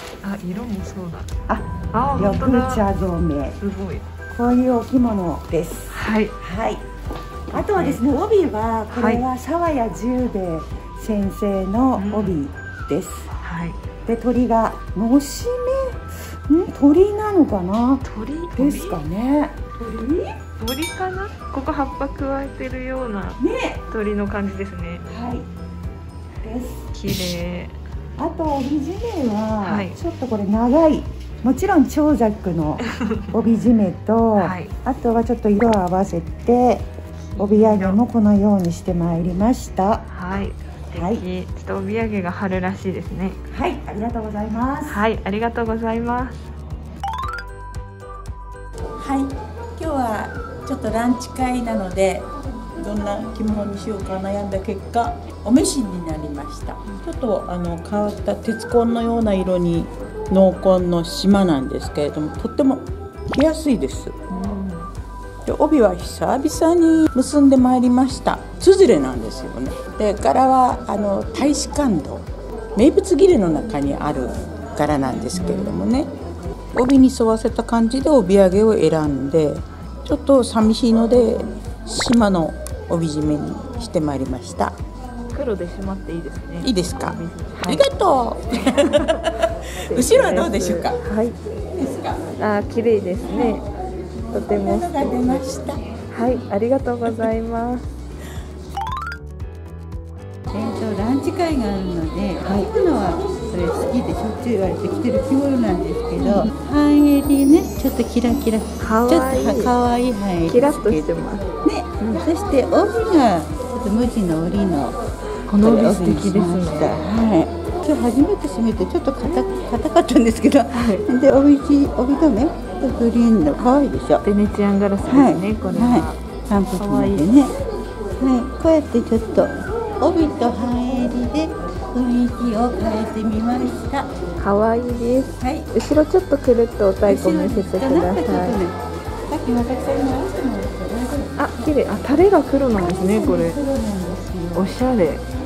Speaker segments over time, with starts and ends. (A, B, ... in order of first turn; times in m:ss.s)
0:00.2-0:01.3 A
0:01.5-0:03.6 B
0:01.9-0:02.8 A
0:03.6-0:04.0 A
0:04.3-0:06.8 B
0:05.9-0:06.3 A
0:07.5-0:08.0 A
0:07.5-0:13.3 B
0:08.9-0:09.2 A
0:12.0-0:12.4 A
0:13.4-0:13.8 A
0:14.0-0:20.4 B
0:18.0-0:19.0 A
0:20.6-0:25.0 A
0:23.4-0:23.8 B
0:25.1-0:25.4 B
0:26.4-0:26.9 B
0:26.9-0:27.7 A
0:28.2-0:40.0 B
0:29.6-0:30.0 A
0:32.9-0:33.3 A
0:34.4-0:34.7 A
0:37.3-0:38.0 A
0:40.1-0:43.4 A
0:40.9-0:41.2 B
0:43.5-0:45.0 B
0:44.9-0:46.4 A
0:49.0-1:04.2 C
1:04.3-1:04.8 A
1:05.4-1:16.1 C
1:15.3-1:15.9 A
1:16.7-1:24.8 C
1:25.3-1:27.9 A
1:26.6-1:29.3 C
1:28.8-1:29.2 A
1:29.8-1:31.4 A
1:29.9-1:31.0 C
1:31.8-1:32.2 C
1:32.4-1:33.6 A
1:34.3-1:35.4 A
1:34.7-1:35.8 C
1:36.1-1:37.8 A
1:40.5-1:51.1 D
1:46.2-1:46.5 A
1:48.8-1:49.8 A
1:50.4-1:51.5 A
1:51.6-1:55.0 D
1:55.5-1:57.1 A
1:55.6-2:04.2 D
2:00.7-2:01.0 A
2:04.2-2:06.2 A
2:05.0-2:07.5 D
2:06.8-2:07.3 A
2:08.2-2:14.1 D
2:14.4-2:18.6 A
2:15.4-2:15.7 D
2:17.0-2:18.8 D
2:19.3-2:21.7 D
2:21.4-2:23.6 A
2:22.8-2:24.7 B
2:23.6-2:23.9 D
2:24.5-2:25.2 A